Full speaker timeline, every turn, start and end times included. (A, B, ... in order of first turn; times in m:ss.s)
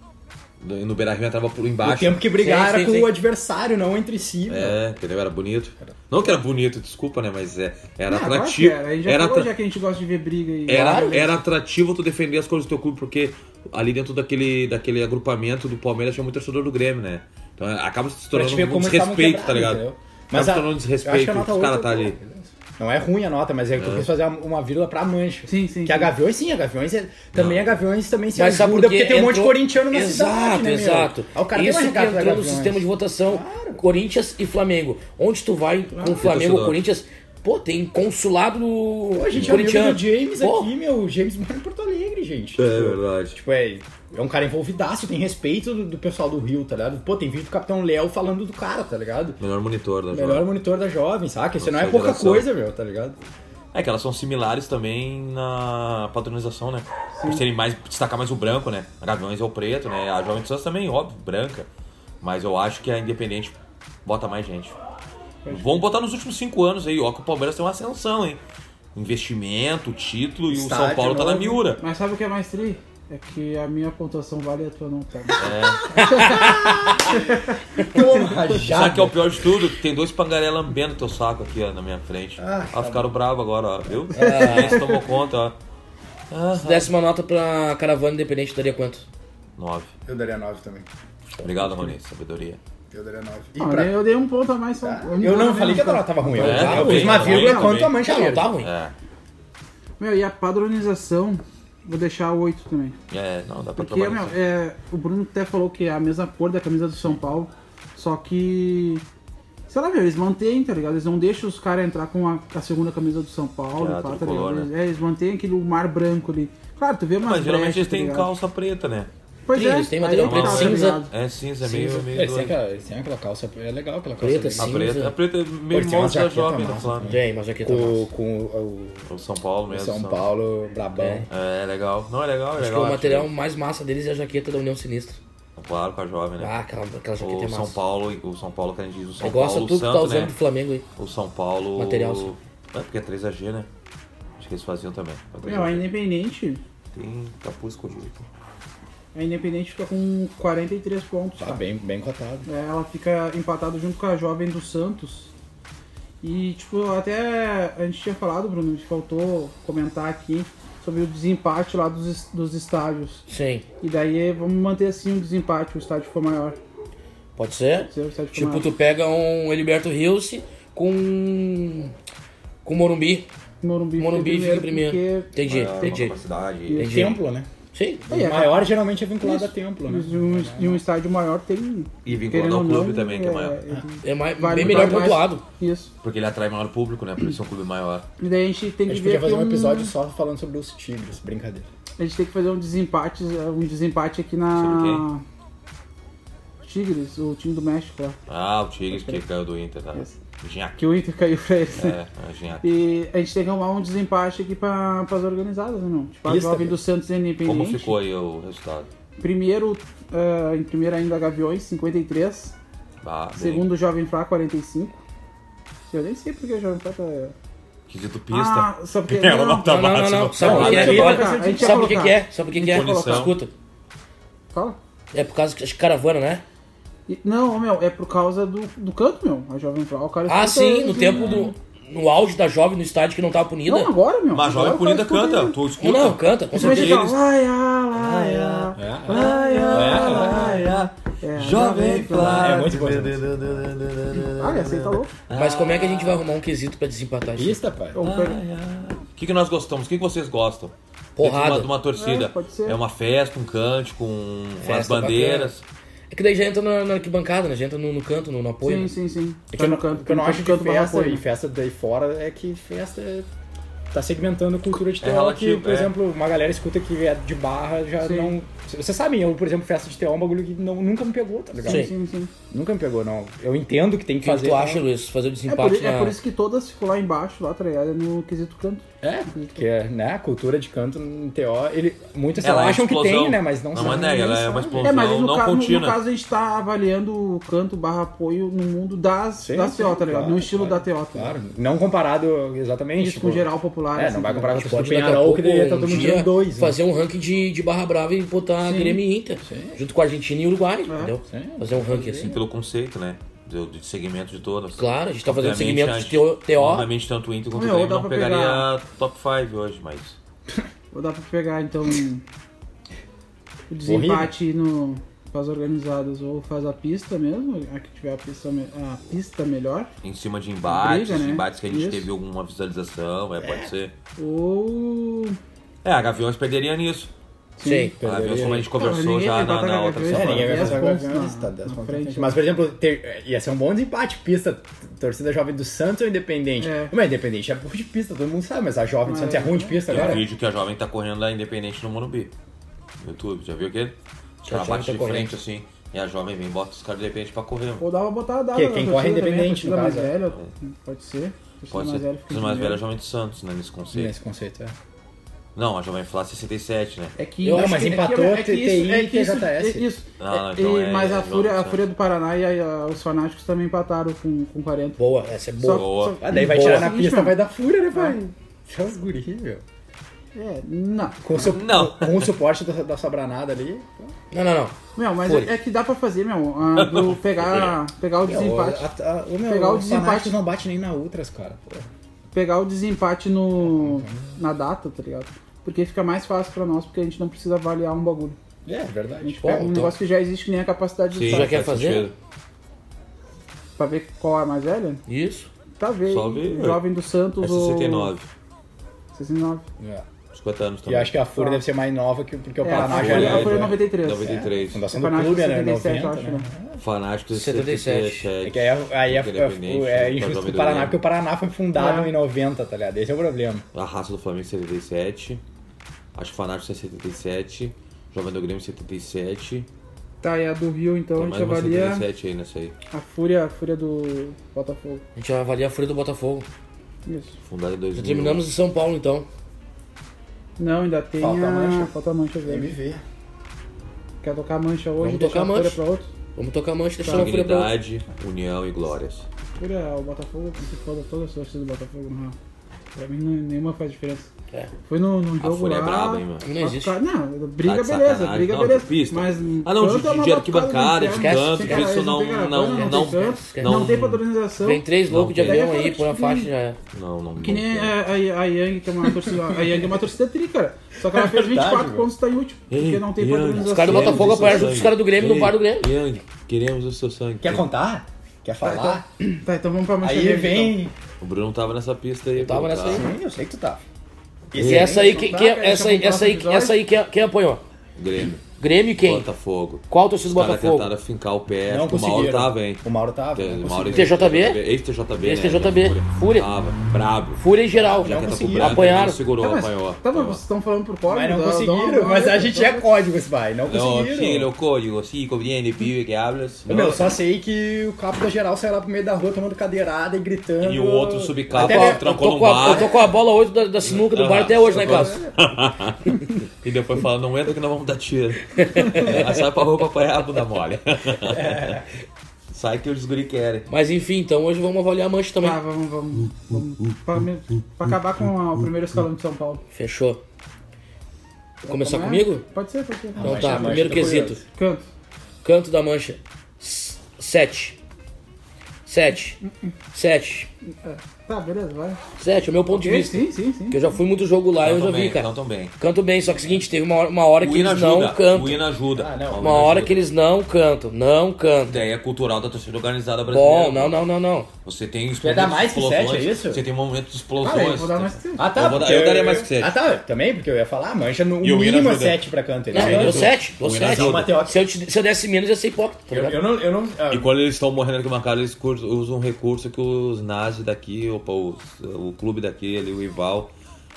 0:00.6-0:02.2 A
0:01.8-0:04.8 B
0:02.3-0:03.1 C
0:04.5-0:09.5 A
0:08.1-0:11.3 D
0:10.7-0:22.2 A
0:10.7-0:11.3 C
0:18.3-0:33.8 B
0:23.8-0:24.1 A
0:25.4-0:26.1 D
0:27.3-0:27.7 A
0:28.3-0:40.7 C
0:35.9-0:36.4 B
0:36.2-0:36.8 A
0:39.1-0:49.4 B
0:39.3-0:39.6 A
0:42.6-0:43.4 A
0:49.4-0:50.5 A
0:50.1-0:53.2 B
0:51.6-0:52.5 A
0:53.7-1:01.7 A
0:57.1-0:57.4 D
1:02.2-1:04.8 A
1:05.4-1:05.8 D
1:05.5-1:08.4 A
1:08.9-1:11.8 A
1:10.5-1:11.5 B
1:11.4-1:18.3 D
1:15.4-1:16.5 A
1:15.4-1:19.4 B
1:18.6-1:25.6 A
1:22.4-1:23.1 B
1:24.1-1:24.9 C
1:24.1-1:25.0 D
1:26.3-1:26.9 A
1:26.5-1:29.0 C
1:29.6-1:29.9 A
1:30.1-1:30.9 B
1:31.4-1:32.6 A
1:32.9-1:34.0 B
1:33.6-1:37.8 D
1:34.8-1:38.5 B
1:36.3-1:38.7 C
1:36.4-1:38.0 A
1:38.6-1:38.9 A
1:40.0-1:43.0 D
1:43.1-1:44.3 A
1:43.8-1:49.0 D
1:49.7-1:58.3 D
1:53.8-1:54.7 A
1:57.2-1:59.1 A
1:59.4-2:01.1 D
1:59.5-2:01.0 C
2:00.2-2:02.6 A
2:01.6-2:02.1 C
2:02.1-2:04.9 B
2:04.2-2:05.1 C
2:04.6-2:07.1 A
2:05.7-2:09.1 B
2:07.0-2:08.1 C
2:09.1-2:10.2 A
2:09.7-2:11.3 B
2:11.0-2:11.3 C
2:11.3-2:13.3 A
2:12.6-2:15.2 C
2:15.6-2:16.5 A
2:16.4-2:17.8 C
2:17.2-2:20.4 A
2:19.2-2:20.8 C
2:21.0-2:23.7 A
2:21.8-2:22.3 C
2:24.4-2:25.8 A
2:25.4-2:26.6 D
2:26.9-2:28.3 A
2:29.1-2:31.6 D
2:31.4-2:32.5 B
2:32.4-2:35.3 D
2:36.2-2:43.2 D
2:43.3-2:43.6 C
2:43.8-2:46.6 D
2:47.4-2:51.9 C
2:47.9-2:48.7 D
2:52.6-2:53.3 C
2:53.6-2:55.3 D
2:54.0-2:56.2 C
2:55.4-2:56.8 A
2:56.7-2:57.2 D
2:56.7-2:57.2 C
2:56.8-2:57.5 B
2:57.7-2:58.0 C
2:58.1-3:00.8 B
2:58.1-3:05.9 D
3:02.0-3:03.6 A
3:04.0-3:05.4 C
3:04.6-3:05.2 A
3:06.0-3:08.1 A
3:08.2-3:09.9 D
3:08.9-3:11.7 B
3:12.0-3:15.2 D
3:14.6-3:15.0 A
3:16.6-3:18.2 D
3:18.3-3:20.8 A
3:18.9-3:19.2 D
3:20.8-3:22.0 D
3:21.8-3:22.7 A
3:22.6-3:28.0 D
3:26.2-3:26.8 B
3:27.4-3:28.9 A
3:29.2-3:32.6 D
3:33.0-3:33.7 A
3:33.4-3:35.0 D
3:35.9-3:37.3 D
3:37.9-3:41.2 A
3:38.3-3:39.7 D
3:39.6-3:43.5 C
3:40.4-3:42.0 B
3:40.4-3:43.3 D
3:42.6-3:43.3 A
3:45.1-3:46.4 C
3:47.1-3:51.5 D
3:50.3-3:53.9 C
3:53.6-3:55.6 D
3:54.3-3:57.2 A
3:55.8-3:57.0 C
3:56.5-4:02.6 D
3:57.9-4:06.2 A
3:58.8-4:00.7 B
4:02.2-4:03.7 B
4:04.2-4:05.1 D
4:05.3-4:07.6 C
4:07.3-4:08.0 B
4:07.9-4:08.4 D
4:08.0-4:15.6 A
4:11.2-4:11.7 C
4:12.0-4:12.8 D
4:14.6-4:15.5 C
4:16.1-4:18.9 C
4:18.6-4:21.2 D
4:19.5-4:23.3 B
4:23.9-4:31.9 B
4:25.0-4:25.9 A
4:28.0-4:28.4 D
4:31.6-4:32.3 D
4:31.7-4:31.9 C
4:32.5-4:34.9 B
4:34.2-4:36.2 C
4:35.5-4:39.6 D
4:39.0-4:45.0 B
4:42.4-4:46.0 A
4:44.8-4:51.4 D
4:49.4-4:56.8 B
4:53.0-4:54.6 D
4:54.5-5:02.4 C
4:58.6-4:59.0 D
4:59.4-4:59.8 B
5:00.9-5:01.1 D
5:01.3-5:02.4 B
5:02.2-5:10.2 A
5:04.8-5:06.9 C
5:07.6-5:08.7 D
5:10.9-5:12.2 D
5:13.7-5:19.9 D
5:13.8-5:14.3 B
5:20.0-5:23.9 A
5:20.6-5:22.1 D
5:23.4-5:23.7 B
5:24.2-5:25.4 D
5:25.8-5:27.1 A
5:27.6-5:27.9 D
5:27.6-5:27.9 C
5:28.0-5:28.7 B
5:28.0-5:30.8 A
5:28.7-5:32.4 D
5:30.1-5:40.3 B
5:36.6-5:36.9 D
5:39.0-5:40.2 D
5:39.9-5:42.3 A
5:43.0-5:47.8 A
5:44.4-5:45.3 C
5:47.8-5:52.8 D
5:48.5-5:50.2 B
5:51.7-5:54.1 A
5:53.9-5:54.7 B
5:55.6-5:57.1 A
5:57.2-6:05.0 D
5:57.4-5:57.8 C
5:57.5-5:59.9 B
6:00.2-6:01.8 A
6:05.0-6:05.8 C
6:05.6-6:07.4 D
6:05.6-6:06.2 A
6:06.2-6:09.6 B
6:06.4-6:06.9 C
6:10.3-6:11.4 D
6:11.2-6:14.1 B
6:11.4-6:12.3 A
6:14.3-6:15.6 C
6:15.0-6:18.9 D
6:16.7-6:17.8 A
6:18.2-6:21.9 B
6:19.5-6:20.4 D
6:22.3-6:28.4 D
6:23.6-6:24.3 B
6:28.6-6:29.8 B
6:29.2-6:31.6 D
6:29.4-6:29.9 C
6:31.1-6:32.1 A
6:31.2-6:32.1 C
6:33.8-6:35.0 D
6:35.1-6:35.5 C
6:35.8-6:38.1 D
6:36.1-6:36.8 A
6:37.4-6:38.3 A
6:39.1-6:39.7 D
6:39.8-6:40.0 B
6:40.3-6:41.1 A
6:40.9-6:46.8 B
6:41.3-6:41.6 D
6:42.6-6:46.5 D
6:42.7-6:44.8 A
6:46.8-6:51.0 A
6:47.3-6:48.3 C
6:48.4-6:53.6 B
6:51.7-6:52.1 D
6:53.7-6:55.4 A
6:56.1-6:59.7 A
7:00.2-7:02.0 D
7:01.2-7:02.7 A
7:02.9-7:05.0 D
7:05.2-7:06.5 C
7:07.0-7:07.4 D
7:07.4-7:08.4 A
7:07.9-7:09.3 C
7:10.6-7:12.7 D
7:11.2-7:11.9 B
7:12.4-7:13.0 B
7:14.2-7:16.1 D
7:15.0-7:15.8 C
7:16.3-7:17.7 C
7:17.0-7:17.3 D
7:17.0-7:19.3 A
7:19.6-7:22.3 D
7:22.9-7:24.3 D
7:24.9-7:34.9 D
7:25.4-7:26.4 A
7:26.4-7:26.9 C
7:27.6-7:34.2 A
7:31.1-7:31.9 C
7:32.7-7:33.9 C
7:34.6-7:36.8 C
7:35.1-7:35.6 A
7:35.4-7:36.5 D
7:36.9-7:38.0 A
7:37.4-7:44.7 D
7:39.0-7:39.3 B
7:41.1-7:42.1 B
7:42.7-7:47.6 A
7:43.6-7:45.9 C
7:43.9-7:44.7 B
7:47.4-7:49.0 B
7:48.6-7:50.8 D
7:50.0-7:50.9 B
7:51.2-7:53.0 A
7:52.4-7:53.1 C
7:52.8-7:53.8 B
7:54.5-7:55.4 B
7:54.6-7:55.0 A
7:54.6-7:57.6 C
7:55.0-7:56.8 D
7:58.0-7:58.4 A
7:58.4-7:59.3 C
7:59.0-8:10.4 A
7:59.9-8:00.9 C
8:01.7-8:04.2 B
8:03.9-8:04.6 C
8:05.2-8:06.5 C
8:07.4-8:09.2 C
8:07.9-8:09.0 B
8:09.4-8:12.9 D
8:11.1-8:14.5 B
8:13.7-8:17.2 A
8:16.6-8:23.0 B
8:20.6-8:23.1 A
8:21.5-8:25.2 C
8:23.8-8:31.8 A
8:24.7-8:25.3 B
8:28.6-8:29.3 C
8:31.3-8:31.8 B
8:32.5-8:33.7 A
8:33.7-8:35.6 C
8:35.4-8:39.6 D
8:36.2-8:37.0 A
8:39.7-8:40.2 C
8:41.6-8:43.9 D
8:41.6-8:42.4 C
8:43.2-8:44.4 B
8:43.2-8:44.4 C
8:44.6-8:44.8 D
8:45.4-8:47.8 C
8:48.9-8:49.4 C
8:49.4-8:49.7 D
8:49.9-8:50.5 C
8:50.8-8:52.0 D
8:52.2-8:58.6 C
8:52.7-8:53.9 D
8:54.6-8:55.7 A
8:57.4-9:00.1 A
8:58.9-8:59.6 B
8:59.4-9:01.8 C
9:01.7-9:04.0 A
9:03.3-9:04.5 C
9:04.6-9:09.7 A
9:05.2-9:06.6 B
9:07.4-9:07.8 B
9:07.4-9:08.6 D
9:08.4-9:14.7 B
9:11.4-9:12.2 A
9:12.7-9:14.3 A
9:12.7-9:16.4 C
9:16.1-9:17.3 B
9:17.1-9:23.5 A